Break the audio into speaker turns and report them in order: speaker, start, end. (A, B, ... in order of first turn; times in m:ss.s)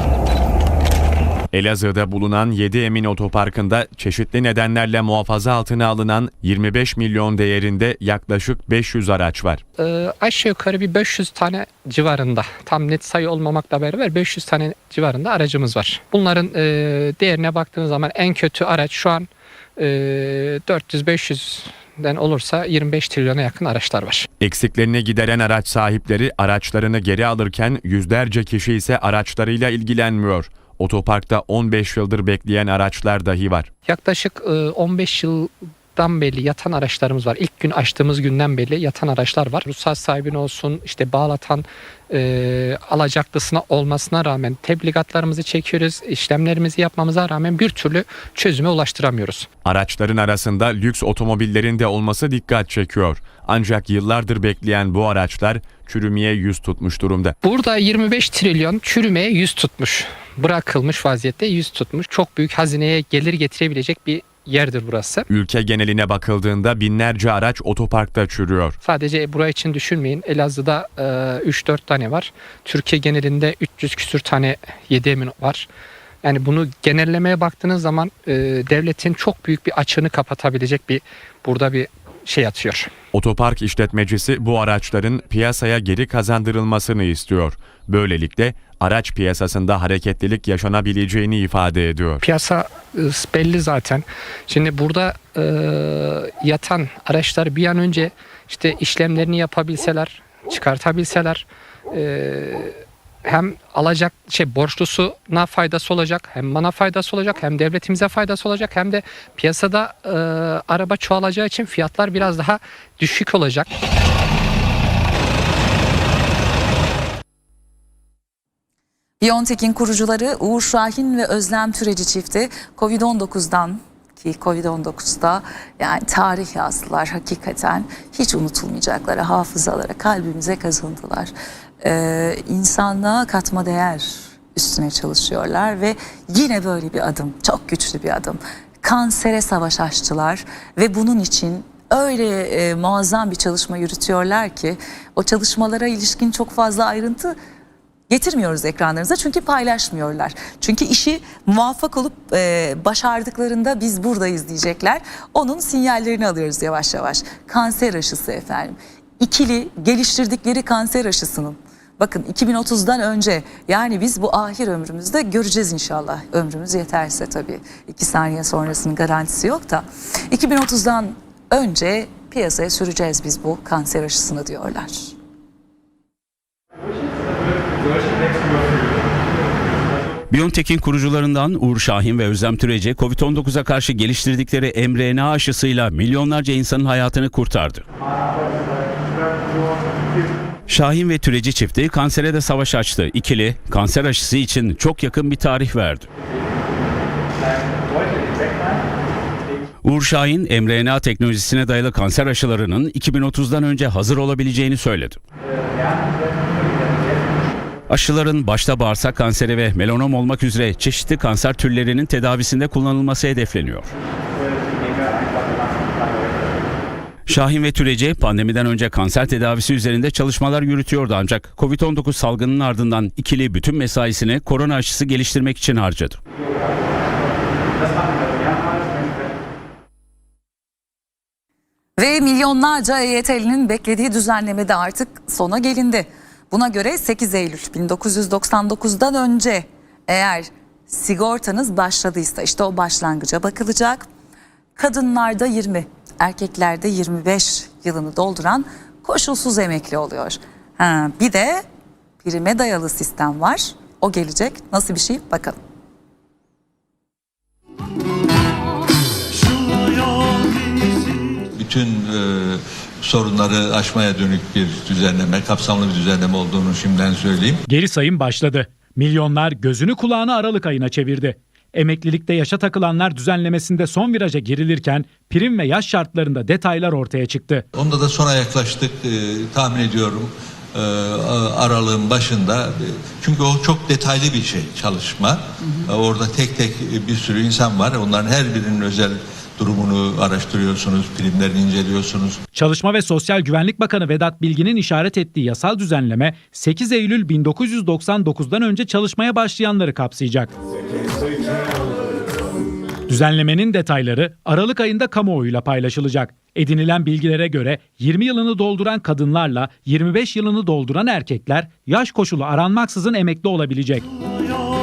0:01.5-0:09.6 A
0:09.8-0:24.3 B
0:24.4-0:33.7 A
0:33.9-0:49.5 B
0:49.6-0:57.4 A
0:57.4-1:05.2 B
1:05.3-1:08.8 A
1:08.8-1:15.7 B
1:16.2-1:22.9 B
1:23.1-1:32.2 A
1:32.3-1:53.7 B
1:59.2-2:27.4 C
2:28.1-2:55.2 C
3:00.3-3:07.8 D
3:10.7-3:16.1 D
3:19.8-3:25.2 D
3:27.9-3:33.9 D
3:37.3-3:46.2 D
3:52.0-4:04.1 C
4:04.8-4:11.6 C
4:12.2-4:15.6 C
4:21.5-4:27.6 E
4:27.7-4:37.7 F
4:37.7-4:52.4 E
4:52.5-5:00.5 F
5:03.1-5:14.1 F